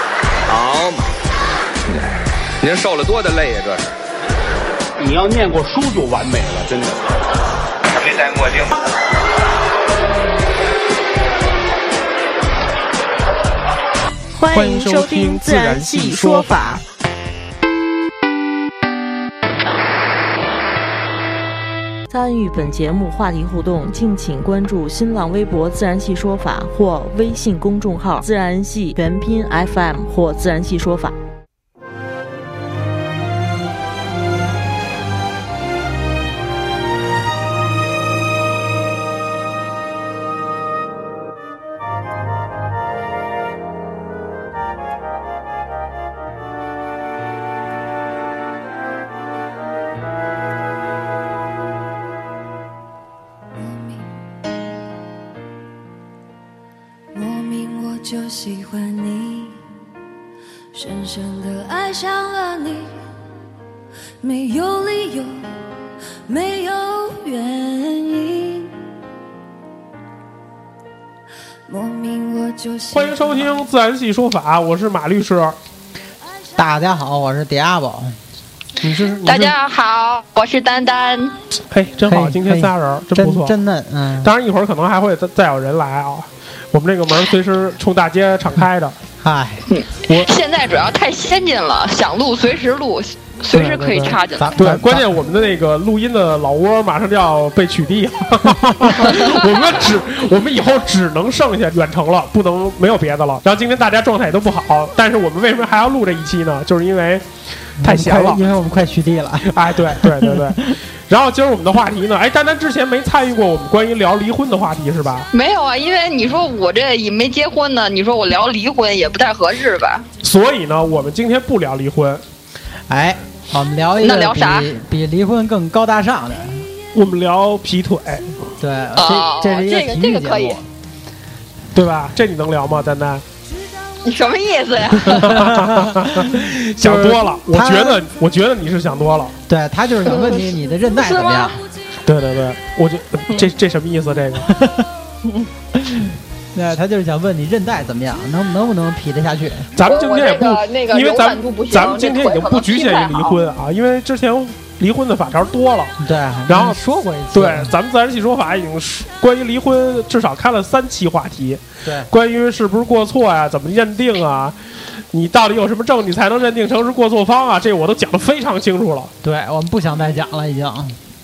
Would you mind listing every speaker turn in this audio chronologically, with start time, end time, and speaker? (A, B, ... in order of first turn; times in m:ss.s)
0:00.5-0:01.0 A
0:00.5-0:00.8 B
0:02.6-0:03.9 A
0:05.0-0:07.0 B
0:08.0-0:08.7 A
0:14.3-0:16.8 C
0:14.5-0:16.6 D
0:22.1-0:31.1 C
0:53.5-0:54.3 E
0:57.1-0:59.6 E
1:00.7-1:03.1 E
1:04.2-1:08.9 E
1:11.7-1:13.6 E
1:12.9-1:15.6 D
1:16.6-1:18.2 F
1:18.8-1:19.6 D
1:19.2-1:21.4 G
1:21.7-1:23.6 D
1:22.1-1:24.3 F
1:24.2-1:29.0 D
1:29.2-1:29.6 F
1:29.7-1:34.7 G
1:33.5-1:35.1 F
1:34.0-1:47.2 D
1:38.6-1:39.0 F
1:39.0-1:39.4 G
1:47.8-1:48.4 D
1:47.8-1:50.8 F
1:49.5-1:55.3 D
1:55.3-2:00.1 G
2:00.2-2:02.2 D
2:02.9-2:06.7 F
2:04.0-2:04.7 G
2:06.9-2:08.3 D
2:08.6-2:10.6 F
2:09.0-2:10.6 G
2:11.7-2:13.2 D
2:14.0-2:15.5 G
2:15.0-2:19.3 D
2:15.3-2:18.0 F
2:19.5-2:21.6 F
2:20.1-2:20.4 G
2:21.1-2:21.5 G
2:22.0-2:24.5 D
2:24.5-2:24.8 F
2:25.8-2:29.7 F
2:29.8-2:35.9 D
2:29.8-2:33.4 G
2:36.0-2:37.7 F
2:36.5-2:36.8 D
2:37.3-2:44.6 D
2:41.8-2:42.1 F
2:45.1-2:49.1 D
2:49.2-2:51.0 F